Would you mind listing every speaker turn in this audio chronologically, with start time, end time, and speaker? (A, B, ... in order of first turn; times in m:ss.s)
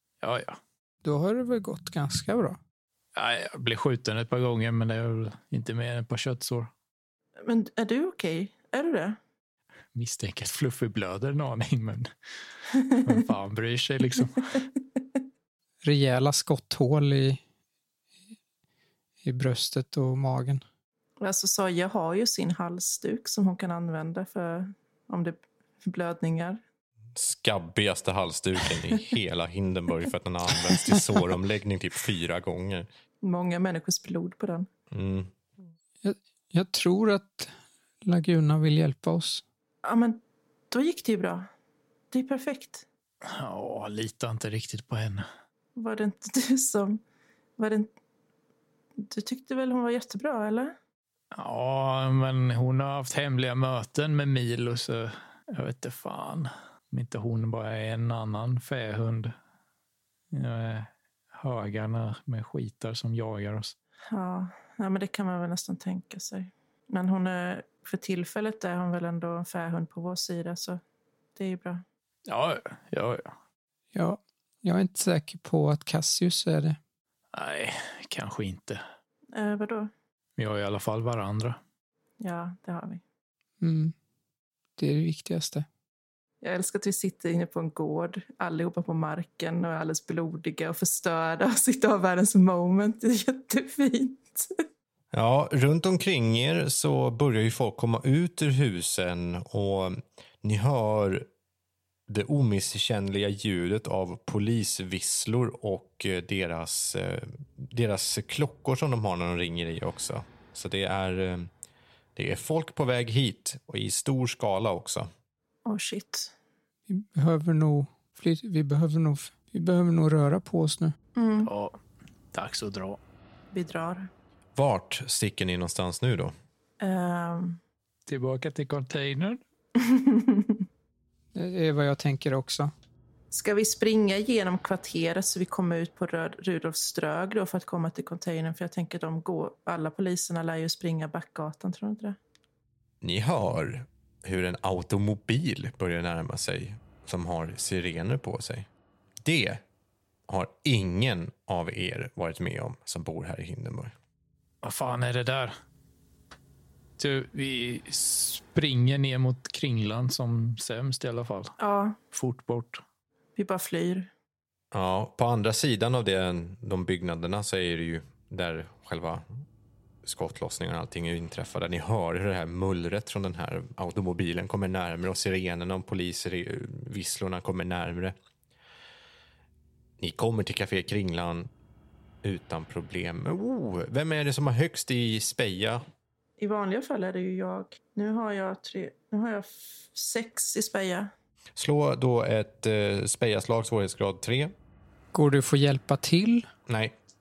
0:00.2-0:00.6 A
0:01.0-0:02.6 B
0:03.1-0:06.7 A
0:07.4-0:09.2 C
0:09.9-0:12.1 A
0:12.9-0:14.5 A
0:15.8-0:17.4 B
0:19.2-0:20.6 B
0:21.2-0:26.6 C
0:27.1-0:32.9 D
0:33.2-0:34.7 C
0:34.9-0:35.3 D
0:36.0-0:37.5 B
0:38.0-0:39.4 B
0:39.8-0:40.2 C
0:40.7-0:41.5 C
0:42.1-0:42.8 C
0:43.2-0:45.2 A
0:45.8-0:47.0 C
0:47.6-0:47.9 C
0:49.0-0:50.7 C
0:51.3-0:59.3 A
1:00.3-1:03.7 A
1:04.1-1:10.8 C
1:11.4-1:11.8 C
1:12.3-1:13.3 A
1:13.9-1:16.8 B
1:17.3-1:18.8 A
1:19.3-1:19.9 C
1:20.4-1:21.6 A
1:22.2-1:23.0 C
1:23.6-1:23.9 B
1:24.8-1:25.6 B
1:26.4-1:34.5 C
1:35.1-1:41.3 D
1:42.1-1:51.5 D
1:52.2-1:55.1 D
1:55.6-1:56.3 C
1:56.9-2:00.9 B
2:01.2-2:01.5 C
2:01.4-2:01.8 A
2:02.3-2:03.0 A
2:03.5-2:04.1 C
2:04.6-2:06.3 D
2:06.8-2:07.6 C
2:08.1-2:09.4 A
2:09.8-2:10.6 C
2:11.3-2:12.7 B
2:13.3-2:22.2 C
2:23.0-2:28.7 D
2:29.2-2:29.6 D
2:30.3-2:33.9 D
2:34.6-2:35.5 A
2:37.0-2:41.5 A
2:41.6-2:42.0 C
2:42.1-2:42.8 A
2:43.4-2:44.1 C
2:44.7-2:49.2 D
2:50.0-2:58.1 D
3:00.0-3:01.5 D
3:02.2-3:05.8 D
3:06.4-3:11.1 C
3:11.6-3:14.5 D
3:15.1-3:16.5 B
3:16.7-3:17.0 D